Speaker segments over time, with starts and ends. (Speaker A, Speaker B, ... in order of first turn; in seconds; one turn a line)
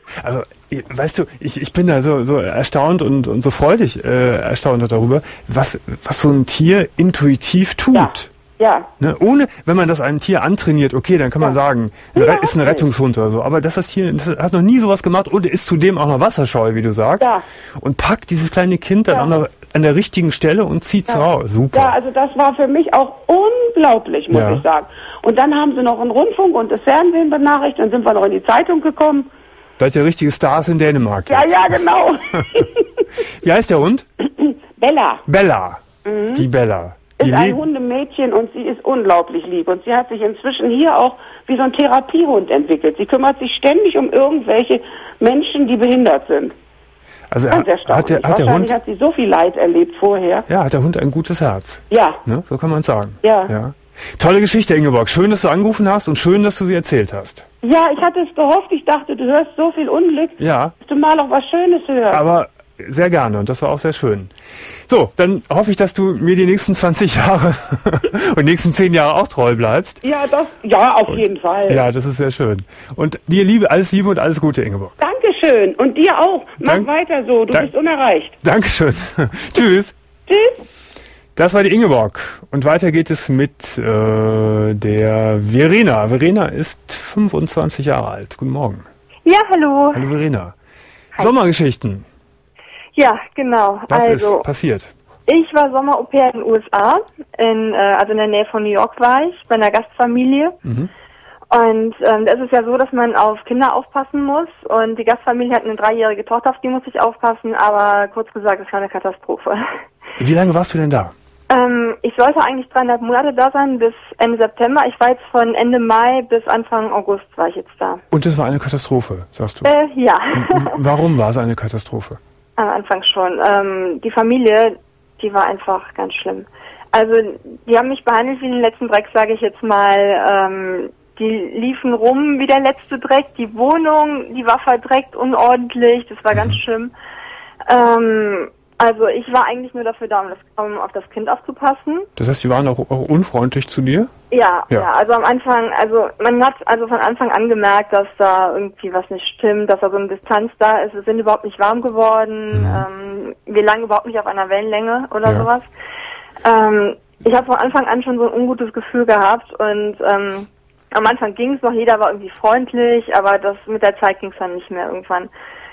Speaker A: 0.1-8.3
Speaker B: 7.9-8.9
Speaker A: 9.0-21.9
Speaker B: 12.1-12.8
Speaker B: 21.1-29.3
Speaker A: 24.3-24.6
Speaker A: 29.8-31.8
Speaker B: 31.3-33.1
Speaker A: 33.4-34.1
Speaker B: 34.4-35.2
Speaker A: 35.3-37.6
Speaker B: 36.0-36.5
Speaker B: 37.2-46.5
Speaker A: 47.3-48.7
Speaker B: 47.5-50.5
Speaker A: 50.5-57.5
Speaker B: 51.9-52.2
Speaker B: 53.2-53.5
Speaker B: 57.6-62.2
Speaker A: 60.4-60.7
Speaker A: 62.1-70.0
Speaker B: 70.0-71.8
Speaker A: 71.1-75.0
Speaker B: 75.0-78.3
Speaker A: 76.6-76.9
Speaker A: 78.4-79.9
Speaker B: 80.3-80.6
Speaker A: 81.3-88.8
Speaker C: 89.2-90.0
Speaker A: 89.9-90.5
Speaker A: 91.1-92.1
Speaker C: 93.0-94.4
Speaker A: 93.9-94.9
Speaker C: 95.3-100.5
Speaker A: 100.6-100.9
Speaker C: 101.5-109.8
Speaker A: 110.2-111.1
Speaker C: 111.5-118.0
Speaker A: 118.1-119.7
Speaker C: 119.6-120.8
Speaker A: 120.3-122.2
Speaker C: 122.6-136.9
Speaker C: 137.7-142.1
Speaker A: 142.2-144.1
Speaker C: 144.3-155.7
Speaker A: 152.5-152.9
Speaker C: 156.4-165.3